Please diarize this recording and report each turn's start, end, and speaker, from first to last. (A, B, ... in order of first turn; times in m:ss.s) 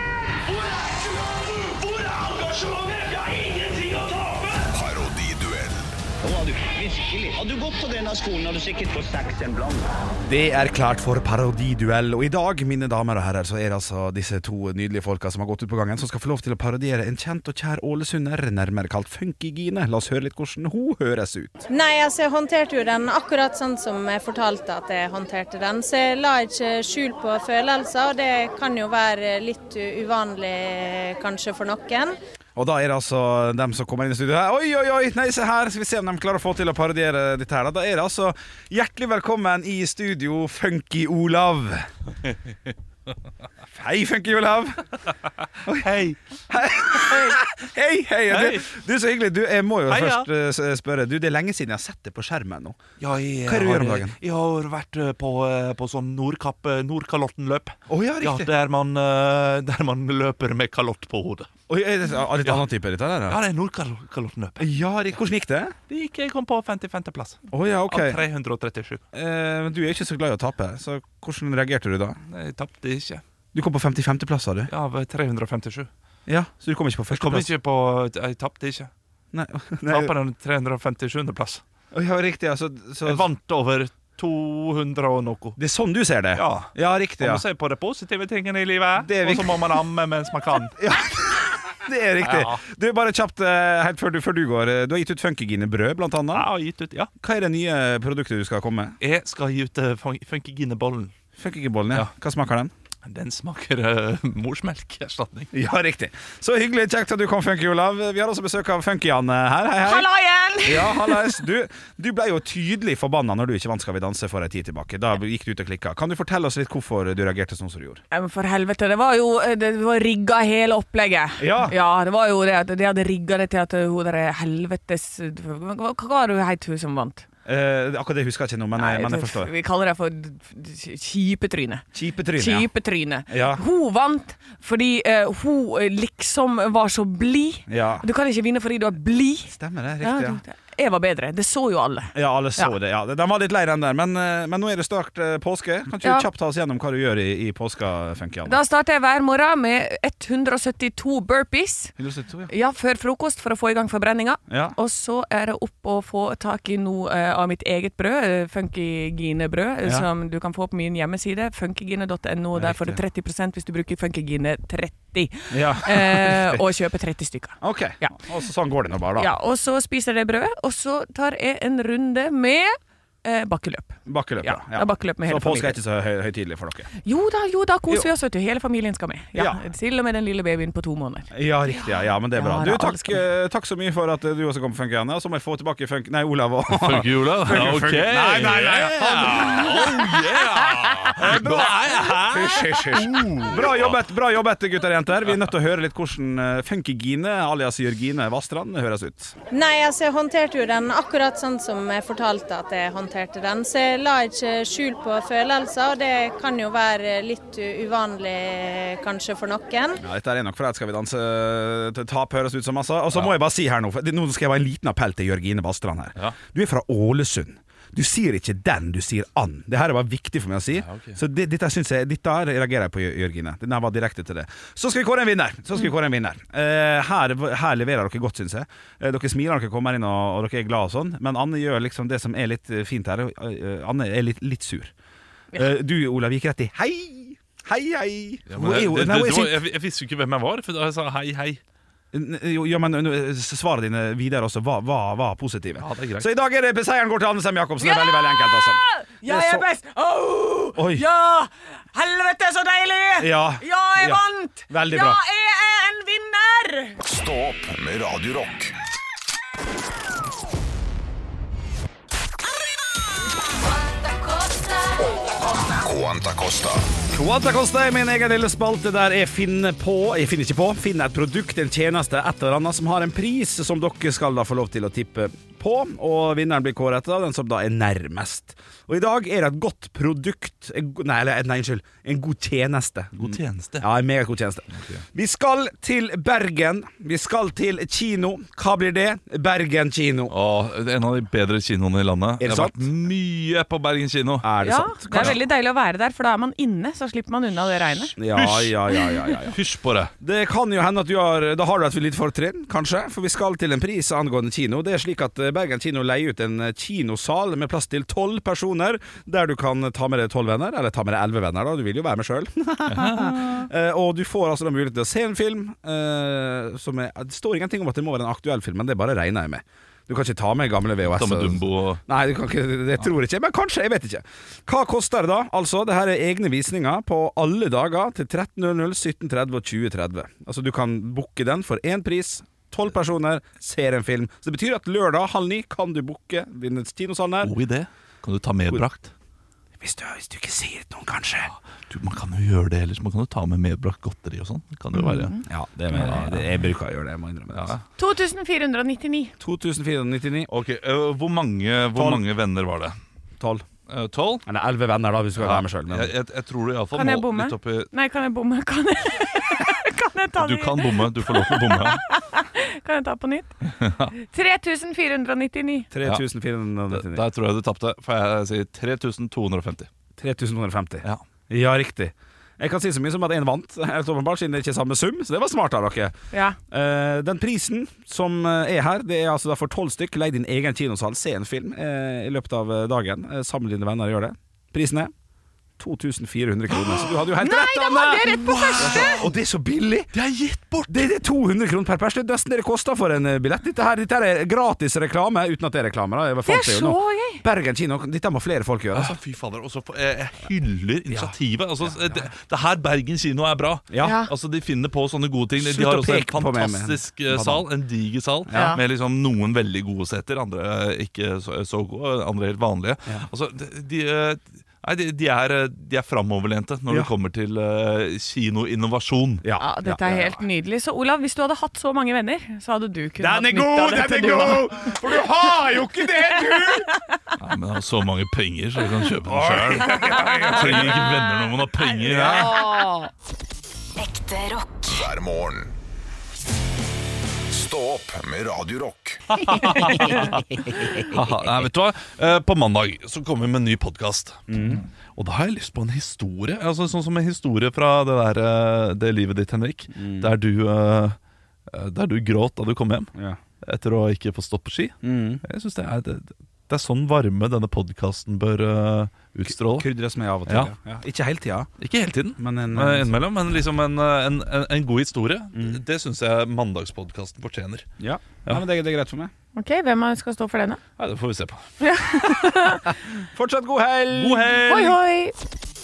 0:00.5-0:04.6 A
0:04.7-0:05.9 B
0:06.2-0:09.9 A
0:10.2-0:21.6 C
0:21.7-0:32.2 D
0:32.6-0:41.9 C
0:43.7-0:44.9 C
0:45.6-0:45.9 C
0:45.7-0:46.2 E
0:46.5-0:52.8 C
0:48.3-0:48.7 E
0:49.9-0:50.3 E
0:53.0-1:01.5 E
0:53.5-0:54.2 C
0:57.9-0:58.5 C
1:01.7-1:03.4 C
1:03.3-1:04.7 E
1:04.6-1:05.8 C
1:05.9-1:09.0 E
1:07.5-1:08.2 C
1:09.1-1:12.2 C
1:12.3-1:13.2 E
1:13.5-1:14.7 C
1:14.7-1:15.9 E
1:16.3-1:17.5 C
1:17.1-1:18.9 E
1:19.3-1:20.1 C
1:19.9-1:21.6 E
1:21.9-1:23.2 C
1:23.0-1:25.6 E
1:25.6-1:27.4 C
1:26.4-1:30.8 E
1:29.0-1:29.6 C
1:30.8-1:36.5 C
1:32.2-1:32.6 E
1:36.3-1:37.1 E
1:37.2-1:39.0 C
1:39.0-1:41.1 E
1:41.4-1:42.7 C
1:43.0-1:45.5 E
1:45.5-1:50.1 C
1:49.8-1:51.4 F
1:50.6-1:58.0 C
1:58.1-2:07.3 F
2:01.4-2:01.8 C
2:07.4-2:09.5 C
2:08.8-2:22.7 F
2:11.9-2:12.7 C
2:13.3-2:13.6 C
2:17.7-2:18.1 C
2:19.5-2:20.4 C
2:22.1-2:28.6 C
2:28.4-2:32.0 F
2:32.0-2:32.5 C
2:32.5-2:48.3 F
2:34.5-2:34.8 C
2:42.6-2:43.0 C
2:45.5-2:46.6 C
2:47.6-2:49.3 C
2:49.2-2:55.8 F
2:54.1-2:56.9 C
2:57.0-3:03.2 F
3:01.3-3:10.4 C
3:06.7-3:14.0 E
3:11.1-3:19.4 C
3:19.5-3:30.0 D
3:30.0-3:54.9 C
3:40.8-3:41.2 E
3:55.5-3:59.6 C
3:58.5-4:01.6 E
4:02.1-4:09.6 C
4:05.8-4:06.3 E
4:07.8-4:17.0 F
4:10.8-4:11.1 C
4:13.2-4:15.2 C
4:17.0-4:18.8 B
4:23.5-4:25.2 G
4:25.8-4:26.9 B
4:27.1-4:50.3 C
4:43.2-4:43.9 E
4:44.8-4:45.0 E
4:50.3-4:54.6 E
4:52.4-4:52.9 C
4:54.4-4:55.4 C
4:54.6-4:58.2 F
4:55.1-4:55.4 E
4:58.2-4:59.6 C
4:58.4-4:58.8 E
4:59.4-5:00.1 E
5:00.2-5:37.5 C
5:12.9-5:13.7 E
5:21.1-5:22.0 E
5:37.4-5:39.1 E
5:39.8-5:41.5 C
5:41.5-5:45.4 E
5:45.0-5:45.4 F
5:45.5-5:47.8 C
5:45.9-5:46.5 E
5:47.5-5:47.8 E
5:48.0-5:49.3 F
5:49.4-5:50.5 C
5:50.5-5:53.0 E
5:51.9-5:52.2 C
5:53.4-5:53.6 C
5:53.9-5:54.4 E
5:54.5-5:56.1 C
5:55.4-5:57.9 E
5:56.9-6:03.6 F
6:00.4-6:02.0 E
6:03.7-6:04.1 E
6:04.2-6:05.9 F
6:05.9-6:07.2 C
6:06.9-6:09.9 E
6:10.2-6:16.2 C
6:16.3-6:16.6 F
6:16.7-6:25.1 C
6:25.8-6:30.1 C
6:27.2-6:29.2 F
6:28.2-6:29.3 E
6:30.1-6:31.1 E
6:30.9-6:39.2 C
6:36.4-6:37.4 F
6:38.9-6:59.4 E
6:41.1-6:42.1 C
6:43.9-6:44.2 C
6:44.0-6:44.3 F
6:45.6-6:47.7 C
6:48.5-6:48.8 C
6:48.5-6:48.8 F
6:59.4-7:00.4 C
6:59.6-7:05.0 F
7:03.2-7:06.9 C
7:07.4-7:12.9 E
7:09.2-7:11.2 C
7:12.0-7:13.0 C
7:14.0-7:14.8 G
7:14.9-7:15.8 B
7:17.5-7:19.5 B
7:19.4-7:31.2 E
7:24.5-7:24.8 C
7:30.0-7:30.3 C
7:31.7-7:39.9 E
7:35.0-7:35.4 C
7:39.5-7:41.7 C
7:41.8-7:47.9 E
7:42.4-7:43.2 C
7:45.5-7:45.8 C
7:48.0-7:49.3 C
7:49.6-7:50.8 F
7:51.0-7:51.6 E
7:51.8-7:53.0 F
7:53.2-7:54.6 C
7:54.1-7:55.0 E
7:54.5-7:55.3 F